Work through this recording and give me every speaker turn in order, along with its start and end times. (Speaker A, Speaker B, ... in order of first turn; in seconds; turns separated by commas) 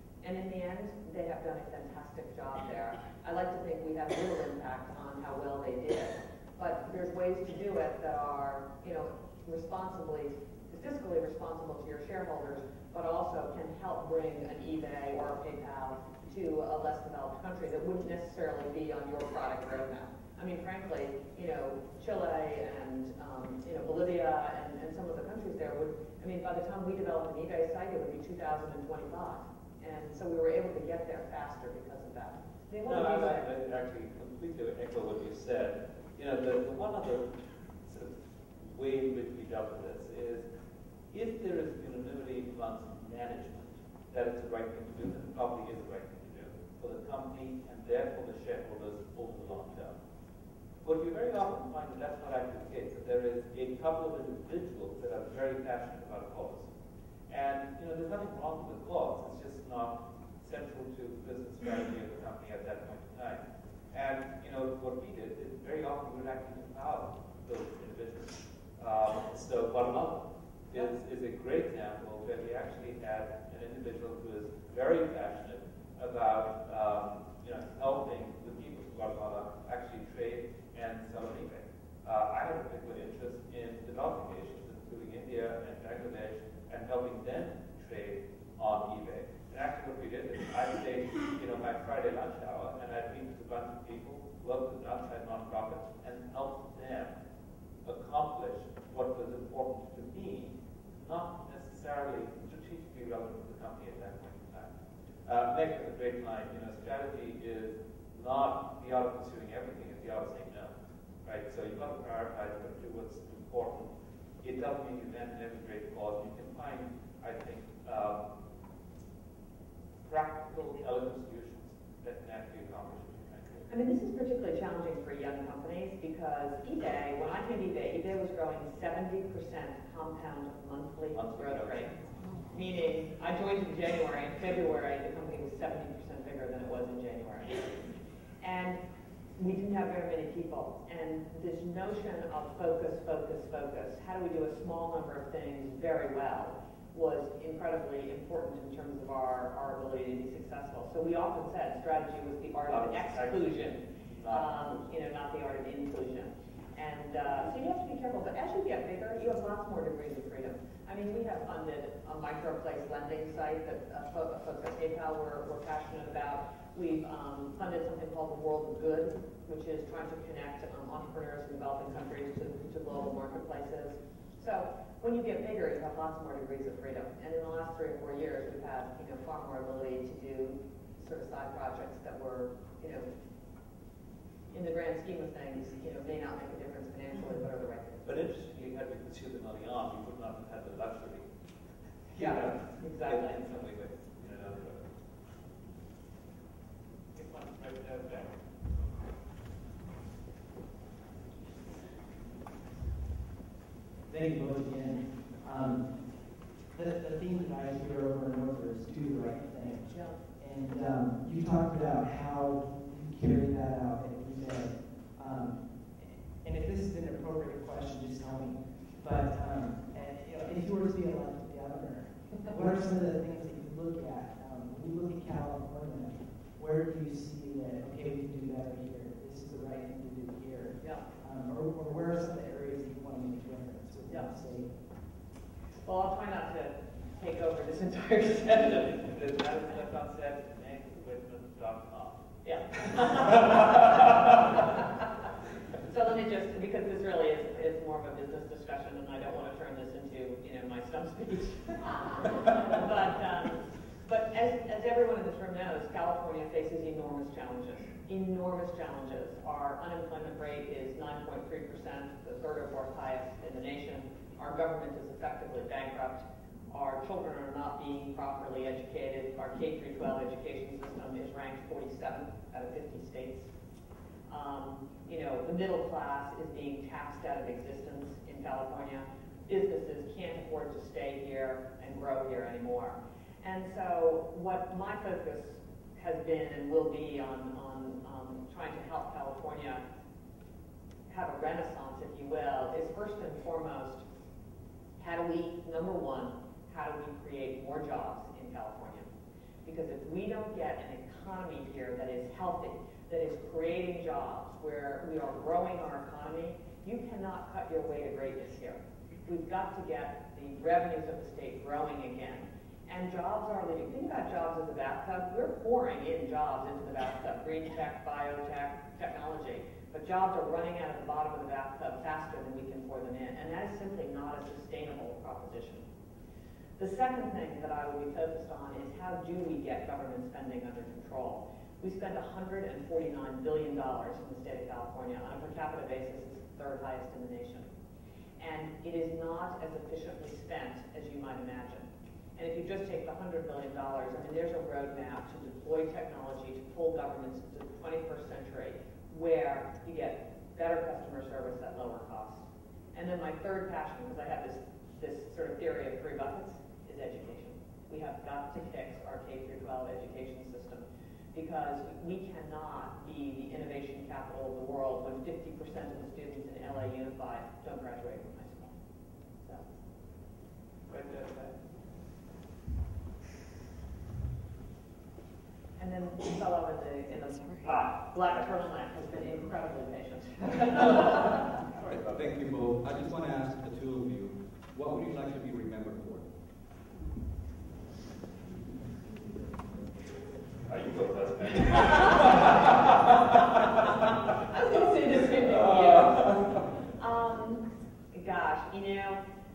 Speaker A: 0.2-33.5, Speaker B: 32.8-40.5, Speaker B: 41.1-50.0, Speaker B: 50.8-56.7, Speaker B: 57.3-97.1, Speaker B: 97.8-104.7, Speaker B: 105.2-118.3, Speaker B: 120.0-123.7, Speaker A: 123.7-131.9, Speaker B: 131.1-132.1, Speaker A: 132.5-137.8, Speaker A: 138.4-138.8, Speaker A: 139.4-183.1, Speaker B: 152.7-154.9, Speaker A: 184.5-188.2, Speaker B: 188.1-191.3, Speaker B: 192.1-194.9, Speaker A: 192.2-193.4, Speaker B: 197.2-198.4, Speaker C: 204.1-234.8, Speaker A: 235.8-239.0, Speaker B: 238.7-242.2, Speaker A: 242.4-243.9, Speaker B: 242.8-244.4, Speaker A: 244.6-244.9, Speaker A: 245.8-273.5, Speaker A: 274.3-289.8, Speaker A: 291.1-294.1, Speaker A: 295.0-299.1, Speaker A: 299.6-325.9, Speaker A: 326.8-337.7, Speaker A: 338.4-368.8, Speaker A: 369.4-369.7, Speaker B: 370.9-371.6, Speaker A: 375.8-381.6, Speaker B: 377.6-378.5, Speaker B: 381.7-382.4, Speaker D: 381.9-386.3, Speaker B: 390.7-394.1, Speaker A: 391.9-392.5, Speaker A: 394.5-399.2, Speaker B: 395.3-396.6